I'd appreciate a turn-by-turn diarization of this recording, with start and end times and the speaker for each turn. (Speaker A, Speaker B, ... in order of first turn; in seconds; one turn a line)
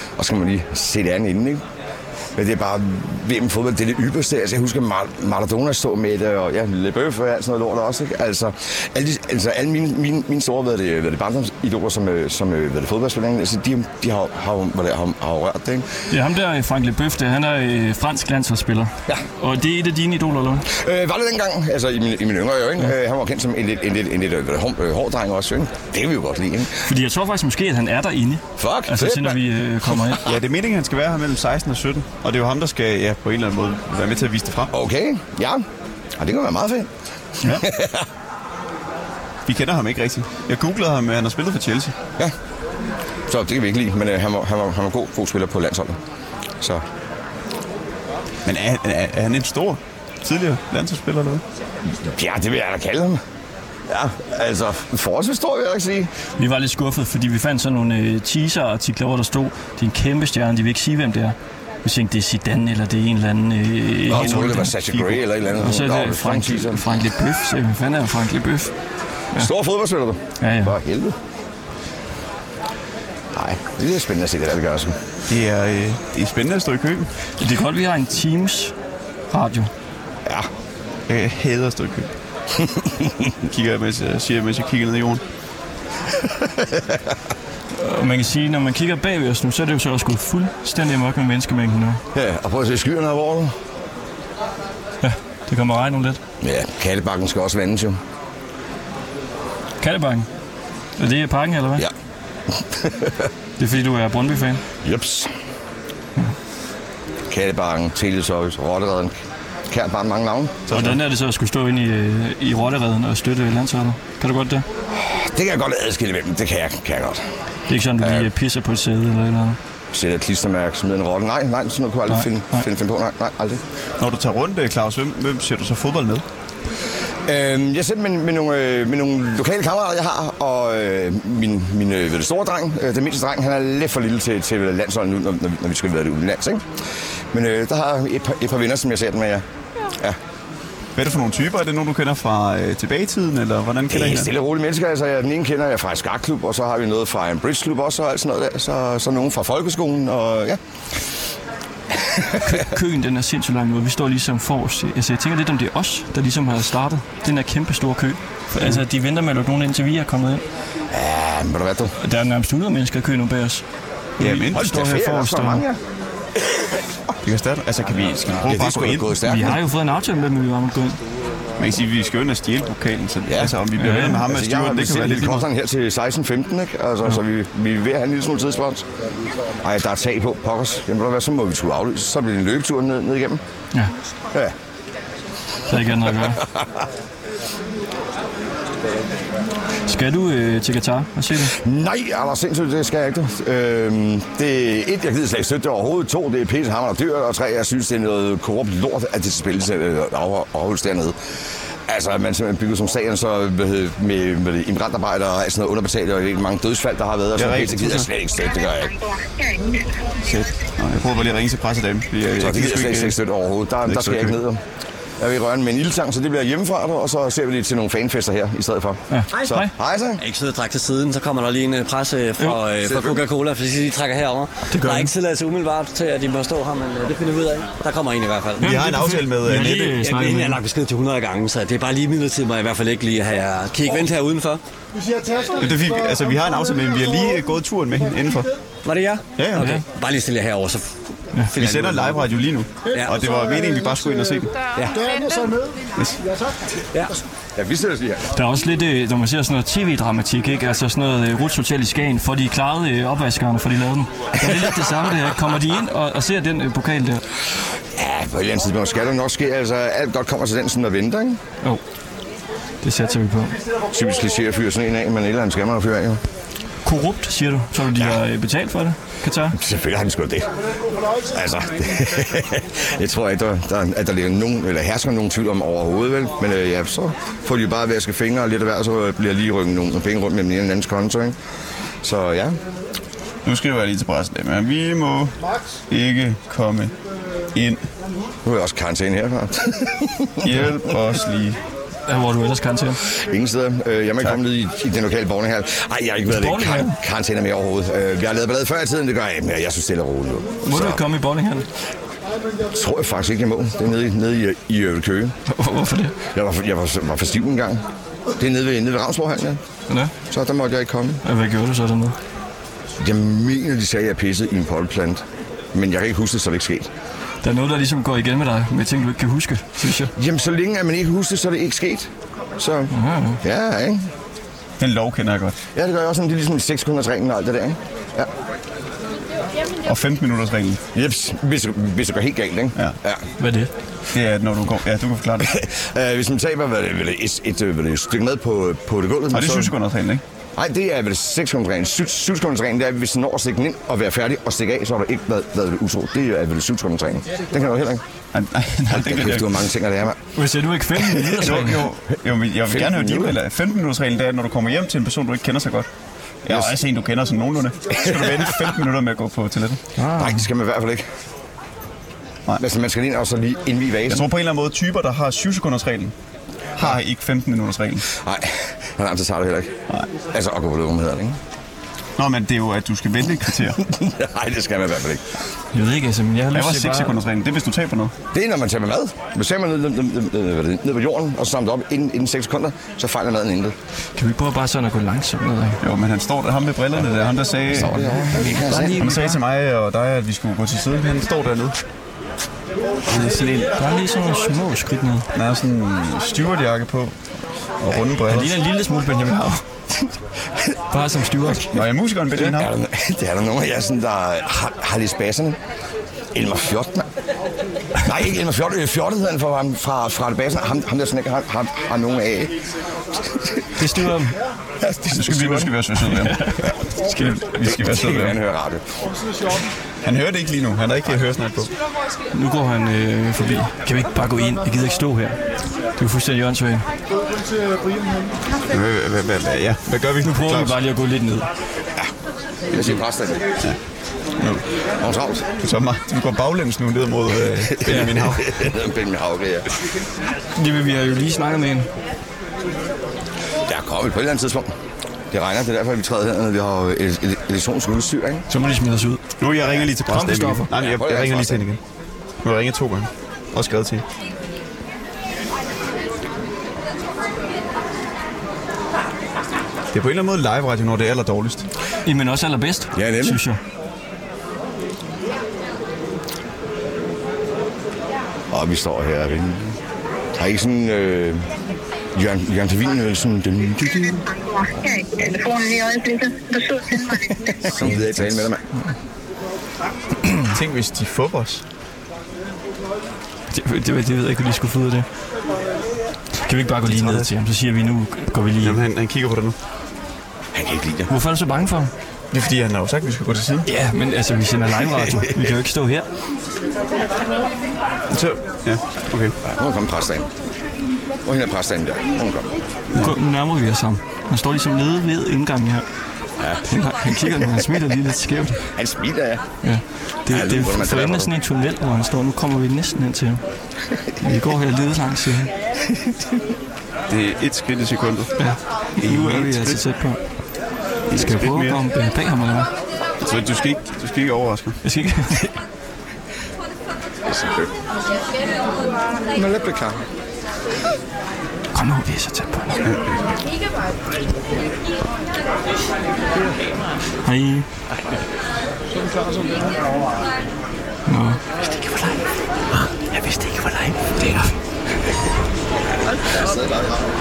Speaker A: 0.2-1.6
Speaker A: 2.4-15.9
Speaker B: 16.1-20.7
Speaker A: 20.7-26.8
Speaker B: 26.8-30.2
Speaker A: 28.6-29.4
Speaker C: 30.2-34.7
Speaker A: 34.7-35.6
Speaker A: 36.2-36.9
Speaker A: 37.4-38.0
Speaker C: 39.5-41.9
Speaker A: 43.3-46.0
Speaker C: 48.4-51.4
Speaker A: 51.9-53.2
Speaker A: 53.9-56.1
Speaker B: 56.4-64.7
Speaker A: 64.1-66.9
Speaker C: 64.1-65.2
Speaker B: 65.6-68.7
Speaker A: 69.3-71.2
Speaker B: 70.4-70.7
Speaker A: 73.3-75.0
Speaker C: 75.3-77.1
Speaker B: 77.4-78.7
Speaker B: 79.3-79.7
Speaker C: 81.1-82.1
Speaker A: 82.6-83.3
Speaker C: 83.4-85.2
Speaker A: 86.4-87.0
Speaker B: 87.7-92.0
Speaker A: 92.1-93.5
Speaker B: 95.0-96.2
Speaker A: 96.4-98.0
Speaker B: 99.8-100.3
Speaker B: 101.0-101.8
Speaker A: 102.5-103.3
Speaker B: 103.6-104.6
Speaker A: 104.8-105.3
Speaker A: 107.3-109.1
Speaker A: 109.7-110.6
Speaker C: 110.7-111.0
Speaker B: 110.7-114.7
Speaker A: 114.9-117.2
Speaker B: 117.7-119.6
Speaker A: 118.0-118.3
Speaker A: 119.9-123.6
Speaker B: 122.1-122.6
Speaker C: 124.0-126.2
Speaker A: 127.2-136.6
Speaker A: 137.3-140.2
Speaker C: 140.9-144.3
Speaker A: 143.9-150.6
Speaker A: 151.9-152.6
Speaker B: 152.4-160.4
Speaker A: 160.9-161.9
Speaker B: 162.0-163.6
Speaker C: 164.2-164.8
Speaker B: 164.2-165.6
Speaker A: 164.5-165.8
Speaker A: 166.4-166.7
Speaker C: 167.2-169.2
Speaker A: 168.4-169.6
Speaker B: 169.2-171.0
Speaker C: 171.6-175.5
Speaker A: 173.3-173.6
Speaker B: 173.8-174.2
Speaker A: 174.2-178.8
Speaker A: 179.6-183.4
Speaker B: 185.7-186.4
Speaker A: 186.2-186.8
Speaker B: 189.8-191.6
Speaker A: 191.4-201.2
Speaker A: 201.9-209.0
Speaker C: 207.3-208.1
Speaker D: 209.1-209.7
Speaker C: 210.2-213.2
Speaker A: 212.4-214.6
Speaker C: 213.8-214.3
Speaker A: 215.2-220.2
Speaker B: 219.1-219.7
Speaker E: 220.2-228.8
Speaker A: 222.8-223.2
Speaker B: 224.7-225.1
Speaker B: 228.6-230.6
Speaker C: 228.6-230.0
Speaker E: 229.9-234.6
Speaker F: 234.9-235.8
Speaker C: 235.6-238.5
Speaker E: 238.8-240.9
Speaker C: 239.4-239.7
Speaker B: 239.6-239.8
Speaker E: 241.4-242.3
Speaker C: 241.5-244.6
Speaker E: 242.9-243.2
Speaker F: 243.0-244.3
Speaker F: 244.9-245.8
Speaker A: 247.5-248.3
Speaker B: 248.3-257.2
Speaker A: 257.9-261.4
Speaker B: 262.8-263.6
Speaker A: 263.9-266.2
Speaker B: 266.8-269.6
Speaker A: 267.9-268.2
Speaker A: 269.5-270.5
Speaker A: 271.2-281.4
Speaker A: 282.0-282.6
Speaker C: 283.4-285.3
Speaker C: 285.9-286.9
Speaker C: 287.5-287.8
Speaker A: 288.4-290.9
Speaker C: 290.4-291.6
Speaker B: 292.1-293.0
Speaker A: 293.1-301.0
Speaker B: 296.3-296.9
Speaker B: 300.6-301.6
Speaker A: 302.7-305.3
Speaker B: 305.5-306.1
Speaker A: 306.3-307.8
Speaker A: 308.4-309.6
Speaker A: 310.3-311.2
Speaker B: 311.2-312.1
Speaker A: 313.0-315.2
Speaker A: 315.7-316.9
Speaker B: 317.4-320.1
Speaker A: 320.1-324.1
Speaker B: 322.9-323.4
Speaker C: 324.8-325.6
Speaker A: 325.7-328.3
Speaker C: 329.8-330.8
Speaker A: 330.9-333.2
Speaker B: 333.4-333.7
Speaker C: 334.1-335.6
Speaker A: 335.4-339.7
Speaker C: 339.3-340.2
Speaker A: 340.6-348.0
Speaker C: 348.3-349.6
Speaker A: 348.9-350.2
Speaker B: 350.3-351.8
Speaker A: 351.0-351.5
Speaker C: 351.3-355.9
Speaker A: 352.7-353.4
Speaker C: 356.4-359.8
Speaker A: 358.0-358.7
Speaker B: 360.0-360.4
Speaker A: 360.1-361.0
Speaker A: 362.6-364.2
Speaker C: 364.1-366.1
Speaker C: 366.8-368.1
Speaker A: 368.1-369.7
Speaker A: 370.3-371.4
Speaker C: 372.2-373.8
Speaker A: 373.8-375.2
Speaker B: 375.7-377.2
Speaker C: 376.5-378.1
Speaker A: 378.3-383.7
Speaker B: 384.1-385.8
Speaker C: 385.8-388.3
Speaker A: 387.7-389.0
Speaker B: 388.3-389.4
Speaker C: 388.8-391.8
Speaker C: 393.1-393.7
Speaker B: 393.8-395.3
Speaker C: 395.3-397.1
Speaker C: 397.8-398.6
Speaker B: 398.3-399.6
Speaker B: 400.9-401.6
Speaker C: 401.7-402.7
Speaker A: 402.3-405.6
Speaker A: 406.3-407.1
Speaker A: 408.0-412.6
Speaker A: 413.2-413.6
Speaker B: 413.8-414.3
Speaker A: 414.8-415.7
Speaker C: 415.1-418.4
Speaker B: 416.1-417.5
Speaker A: 417.6-418.8
Speaker C: 420.0-421.7
Speaker B: 422.3-425.4
Speaker B: 426.0-426.9
Speaker C: 428.7-430.8
Speaker B: 430.2-431.5
Speaker A: 432.7-433.5
Speaker C: 434.4-434.6
Speaker A: 435.0-435.5
Speaker C: 435.6-438.6
Speaker B: 437.8-438.2
Speaker A: 437.9-439.7
Speaker B: 440.6-441.9
Speaker A: 443.6-444.7
Speaker A: 445.3-448.4
Speaker B: 448.5-449.2
Speaker C: 449.4-451.8
Speaker B: 450.1-450.7
Speaker A: 450.7-451.6
Speaker C: 452.4-454.0
Speaker C: 459.9-461.6
Speaker B: 462.0-463.6
Speaker A: 462.9-463.4
Speaker A: 468.5-469.8
Speaker A: 470.4-471.5
Speaker A: 472.1-474.2
Speaker D: 474.3-477.3
Speaker A: 477.6-478.6
Speaker C: 480.4-481.6
Speaker B: 483.5-485.1
Speaker B: 486.4-488.8
Speaker C: 486.8-487.3
Speaker C: 488.6-489.6
Speaker A: 490.5-491.1
Speaker B: 491.1-491.9
Speaker C: 492.3-493.7
Speaker B: 493.6-496.1
Speaker C: 498.1-499.3
Speaker A: 499.4-500.3
Speaker A: 501.2-502.5
Speaker B: 503.0-505.9
Speaker A: 506.4-506.6
Speaker B: 506.7-508.6
Speaker A: 508.6-509.4
Speaker B: 509.6-513.4
Speaker A: 510.3-511.3
Speaker B: 514.2-515.5
Speaker C: 517.1-518.5
Speaker B: 518.4-520.2
Speaker C: 519.0-519.8
Speaker C: 521.1-521.8
Speaker B: 521.1-522.7
Speaker C: 523.2-524.8
Speaker B: 524.8-525.5
Speaker A: 527.2-527.7
Speaker A: 529.3-530.0
Speaker B: 531.7-532.8
Speaker C: 532.8-533.2
Speaker B: 537.2-537.6
Speaker B: 541.1-541.4
Speaker E: 541.6-544.6